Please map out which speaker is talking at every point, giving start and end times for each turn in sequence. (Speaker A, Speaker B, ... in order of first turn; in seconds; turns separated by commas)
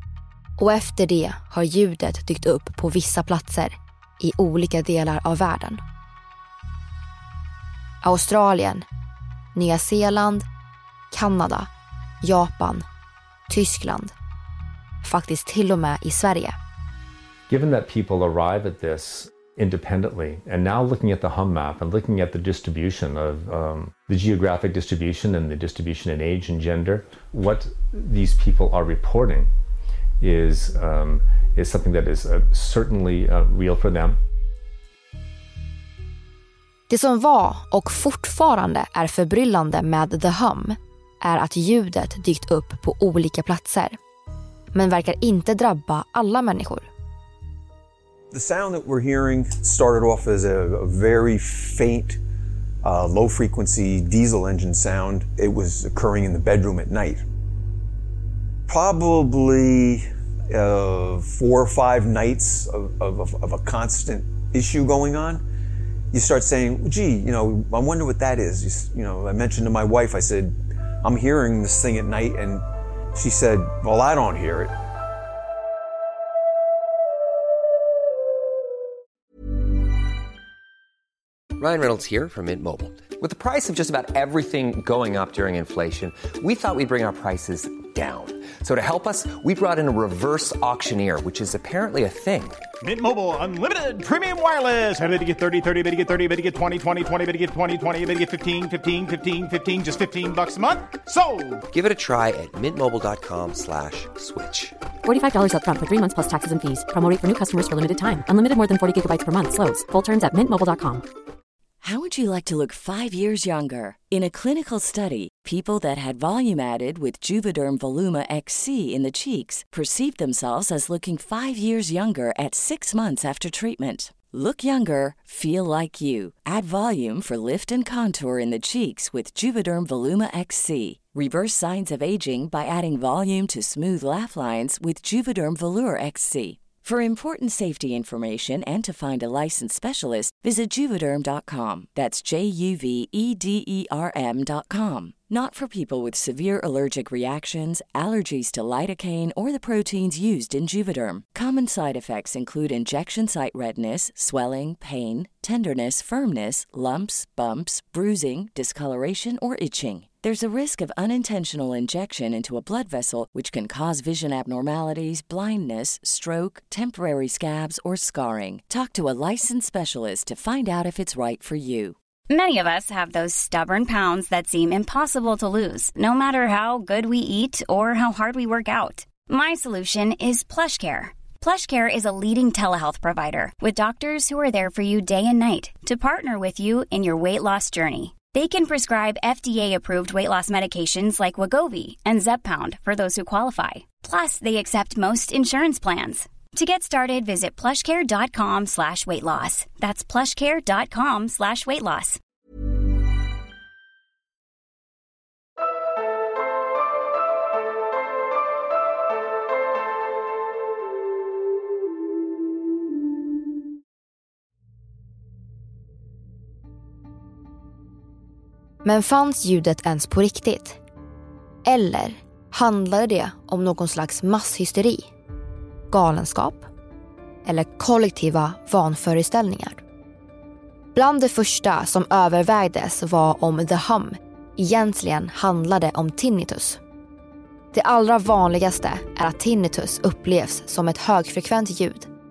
Speaker A: 0.6-5.8, Speaker A: 8.0-8.8, Speaker A: 9.5-10.4, Speaker A: 11.1-11.7, Speaker A: 12.2-12.8, Speaker A: 13.5-14.1, Speaker A: 15.0-16.6, Speaker B: 17.5-29.5, Speaker B: 30.2-34.2, Speaker A: 36.9-44.0, Speaker A: 44.7-46.9, Speaker C: 48.3-52.2, Speaker C: 52.8-57.2, Speaker C: 58.7-65.4, Speaker C: 66.1-74.7, Speaker D: 81.5-92.6, Speaker E: 92.8-101.6, Speaker D: 101.7-104.7, Speaker F: 105.0-111.0, Speaker G: 111.8-171.9, Speaker H: 172.3-202.2, Speaker A: 218.8-220.8, Speaker A: 221.6-225.1, Speaker A: 225.9-226.7, Speaker A: 227.4-229.8, Speaker A: 230.9-236.8, Speaker A: 237.7-242.1